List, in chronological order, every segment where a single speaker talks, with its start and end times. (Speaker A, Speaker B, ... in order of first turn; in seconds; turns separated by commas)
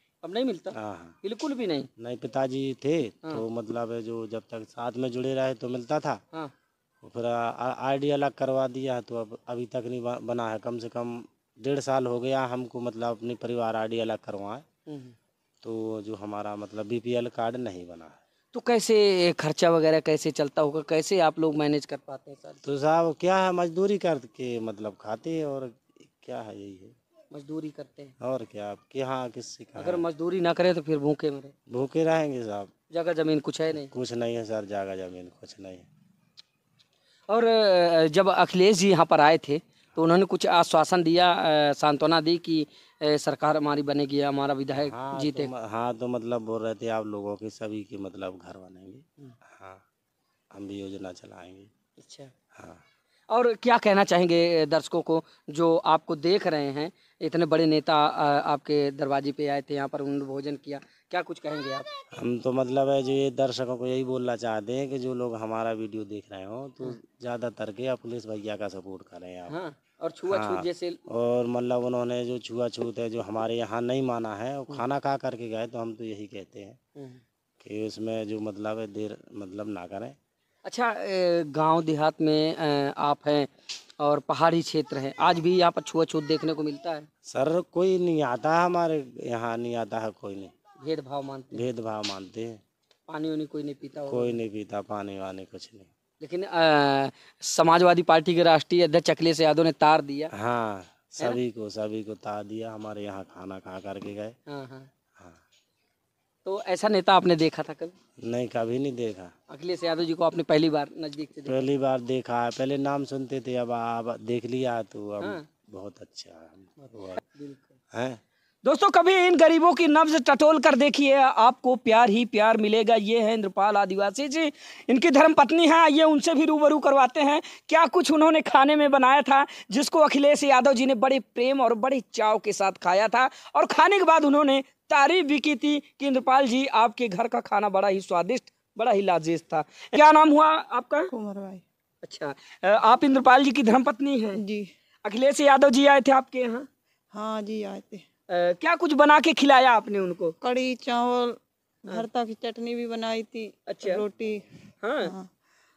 Speaker A: 0.2-1.9, Speaker B: 0.7-1.2, Speaker B: 2.0-6.2, Speaker B: 7.0-14.6, Speaker A: 14.9-15.2, Speaker B: 15.6-18.2, Speaker A: 18.5-22.6, Speaker B: 22.6-26.9, Speaker A: 27.3-28.1, Speaker B: 28.2-30.0, Speaker A: 29.8-31.5, Speaker B: 31.7-32.7, Speaker A: 32.9-33.9, Speaker B: 33.8-35.9, Speaker A: 37.3-45.5, Speaker B: 44.7-49.8, Speaker B: 50.5-51.7, Speaker A: 52.0-52.3, Speaker B: 52.5-52.8, Speaker A: 53.3-61.9, Speaker B: 62.1-69.5, Speaker A: 69.5-71.0, Speaker B: 70.3-76.8, Speaker A: 77.0-77.2, Speaker B: 77.6-80.2, Speaker A: 80.7-87.1, Speaker B: 87.3-90.5, Speaker A: 90.8-91.6, Speaker B: 91.5-92.6, Speaker A: 93.1-94.4, Speaker B: 94.1-95.9, Speaker A: 96.2-100.3, Speaker B: 100.3-104.4, Speaker A: 104.5-104.9, Speaker A: 106.5-108.0, Speaker B: 108.2-109.3, Speaker A: 109.5-111.7, Speaker B: 111.5-117.2, Speaker A: 116.8-117.7, Speaker B: 117.9-118.2, Speaker A: 118.6-141.1, Speaker C: 141.1-141.6, Speaker A: 142.0-144.4, Speaker C: 144.3-144.7, Speaker A: 145.0-146.7, Speaker C: 147.1-148.0, Speaker A: 148.3-150.3, Speaker C: 150.4-154.4, Speaker A: 153.7-154.0, Speaker A: 154.8-155.1, Speaker C: 155.0-155.3